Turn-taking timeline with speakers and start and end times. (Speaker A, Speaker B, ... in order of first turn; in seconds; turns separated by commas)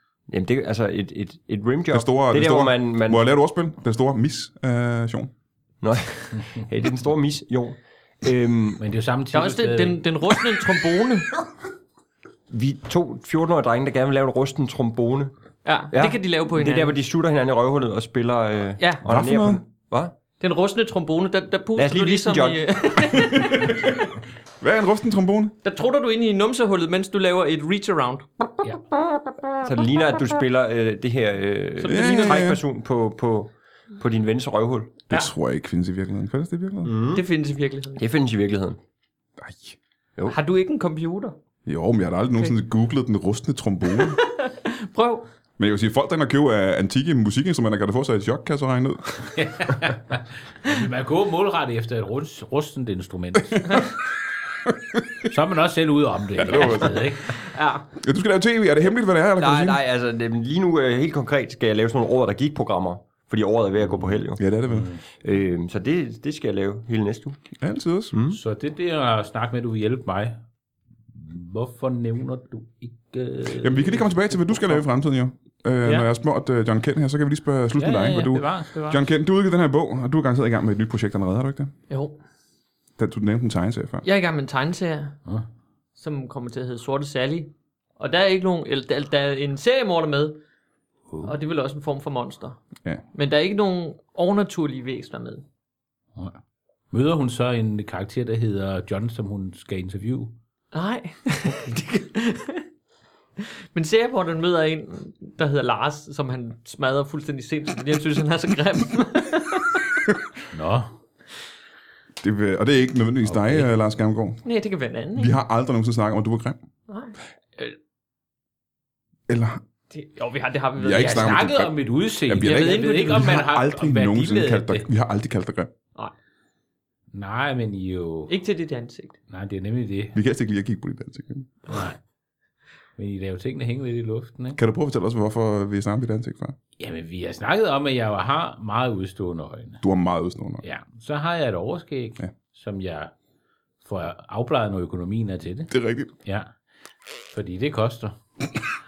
Speaker A: 0.3-3.2, Speaker B: 1.9-5.3, Speaker A: 5.8-8.8, Speaker C: 8.8-10.0, Speaker D: 9.3-11.3, Speaker A: 12.5-15.3, Speaker D: 15.7-17.0, Speaker A: 15.9-20.1, Speaker D: 18.8-19.0, Speaker B: 19.0-19.6, Speaker D: 20.4-23.9, Speaker A: 21.8-23.2, Speaker B: 23.4-24.0, Speaker B: 24.6-25.6, Speaker D: 25.6-29.6, Speaker A: 29.6-35.0, Speaker D: 31.8-32.5, Speaker B: 31.9-32.6, Speaker B: 35.1-36.9, Speaker A: 36.8-37.2, Speaker D: 37.1-38.1, Speaker A: 38.0-38.8, Speaker B: 39.4-39.8, Speaker D: 40.3-41.4, Speaker B: 41.7-44.2, Speaker D: 43.9-45.3, Speaker B: 45.6-49.2, Speaker C: 49.3-53.9, Speaker C: 55.2-57.4, Speaker B: 56.4-57.1, Speaker D: 57.4-57.9, Speaker B: 58.0-59.8, Speaker A: 59.4-64.4, Speaker B: 64.4-64.9, Speaker C: 64.7-65.0, Speaker A: 65.2-67.4, Speaker B: 67.6-68.2, Speaker A: 68.1-68.4, Speaker C: 68.3-70.4, Speaker C: 71.1-74.8, Speaker B: 73.5-81.7, Speaker C: 77.8-79.0, Speaker D: 81.9-82.2, Speaker B: 83.0-84.0, Speaker D: 84.0-85.2, Speaker D: 86.0-90.4, Speaker D: 91.2-92.6, Speaker D: 93.1-95.4, Speaker C: 96.9-100.3, Speaker D: 100.7-102.7, Speaker D: 103.4-109.9, Speaker C: 110.5-110.9, Speaker B: 112.2-114.4, Speaker C: 113.2-113.7, Speaker D: 114.4-115.4, Speaker B: 115.2-116.6, Speaker D: 116.9-117.8, Speaker B: 119.3-119.6, Speaker D: 119.9-121.5, Speaker B: 120.8-125.7, Speaker C: 120.9-124.9, Speaker D: 122.4-123.3, Speaker C: 127.1-128.3, Speaker D: 128.3-129.2, Speaker C: 129.3-130.2, Speaker B: 130.1-131.6, Speaker C: 131.7-132.0, Speaker C: 133.0-134.6, Speaker B: 134.6-136.6, Speaker C: 136.8-139.8, Speaker B: 139.8-140.6, Speaker C: 140.6-143.1, Speaker C: 143.8-145.7, Speaker B: 145.7-146.1, Speaker C: 146.2-146.5, Speaker C: 147.3-148.2